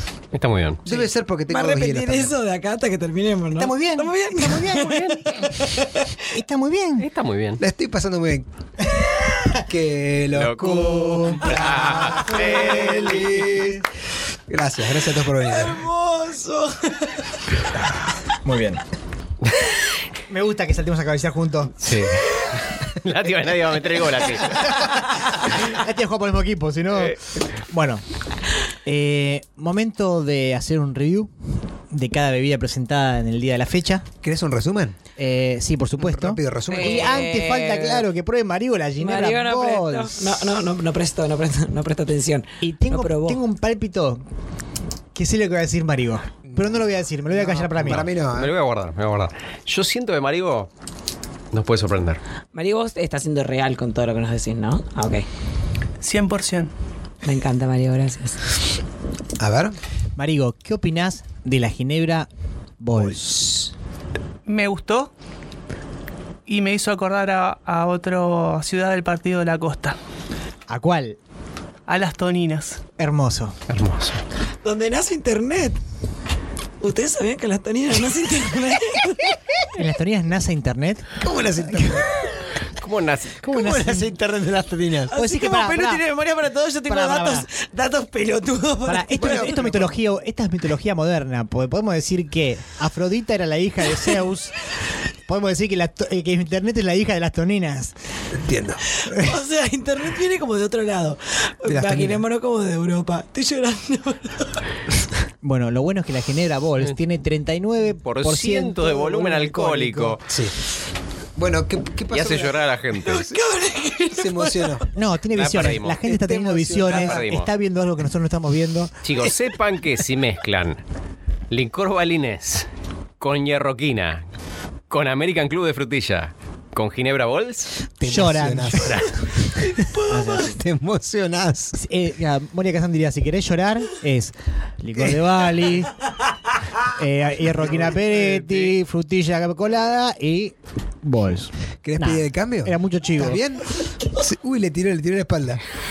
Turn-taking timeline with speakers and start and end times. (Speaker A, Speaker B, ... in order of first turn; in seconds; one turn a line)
Speaker A: 0.3-0.8
Speaker B: 0.8-2.3
Speaker C: 0.9-6.2
Speaker D: 3.6-5.4
Speaker A: 4.8-5.2
Speaker D: 6.2-7.1
Speaker A: 7.0-7.6
Speaker B: 7.6-8.4
Speaker B: 9.4-13.8
Speaker A: 10.3-13.3
Speaker D: 11.1-12.6
Speaker B: 14.5-15.8
Speaker C: 15.4-17.3
Speaker D: 18.4-18.8
Speaker D: 20.3-22.0
Speaker A: 21.8-24.8
Speaker D: 24.6-28.0
Speaker D: 28.8-31.3
Speaker D: 31.9-34.0
Speaker B: 34.2-35.0
Speaker D: 35.2-40.3
Speaker B: 36.0-37.2
Speaker C: 36.7-38.0
Speaker C: 39.0-43.4
Speaker D: 42.6-44.2
Speaker D: 45.1-48.1
Speaker B: 47.3-48.5
Speaker A: 47.8-50.7
Speaker A: 51.5-52.2
Speaker C: 52.5-55.2
Speaker E: 56.0-56.7
Speaker C: 57.2-58.4
Speaker B: 59.4-59.8
Speaker D: 60.1-62.3
Speaker D: 62.8-63.5
Speaker E: 64.5-65.1
Speaker E: 66.5-70.0
Speaker D: 70.7-71.2
Speaker E: 71.9-72.8
Speaker D: 73.0-73.5
Speaker A: 73.7-74.2
Speaker C: 74.6-75.8
Speaker C: 76.8-79.4
Speaker D: 79.7-82.0
Speaker B: 81.2-82.1
Speaker A: 82.7-83.4
Speaker D: 83.4-84.1
Speaker B: 83.5-85.1
Speaker C: 85.1-89.6
Speaker D: 85.1-86.0
Speaker D: 86.9-87.5
Speaker D: 88.8-97.9
Speaker B: 89.2-89.9
Speaker B: 98.3-98.8
Speaker C: 98.9-104.6
Speaker B: 101.7-102.2
Speaker D: 105.4-110.2
Speaker A: 108.0-110.2
Speaker B: 110.2-110.5
Speaker B: 111.3-112.7
Speaker A: 112.1-113.3
Speaker C: 113.0-114.9
Speaker B: 114.1-114.8
Speaker D: 114.9-118.9
Speaker A: 115.3-116.0
Speaker B: 115.9-117.2
Speaker A: 116.8-117.5
Speaker A: 119.0-120.8
Speaker A: 121.5-122.7
Speaker A: 123.2-124.2
Speaker A: 124.9-127.7
Speaker B: 128.0-131.8
Speaker D: 128.0-129.0
Speaker C: 129.8-130.4
Speaker D: 130.0-130.6
Speaker D: 131.7-136.0
Speaker D: 136.8-143.4
Speaker A: 137.8-138.7
Speaker B: 141.8-145.6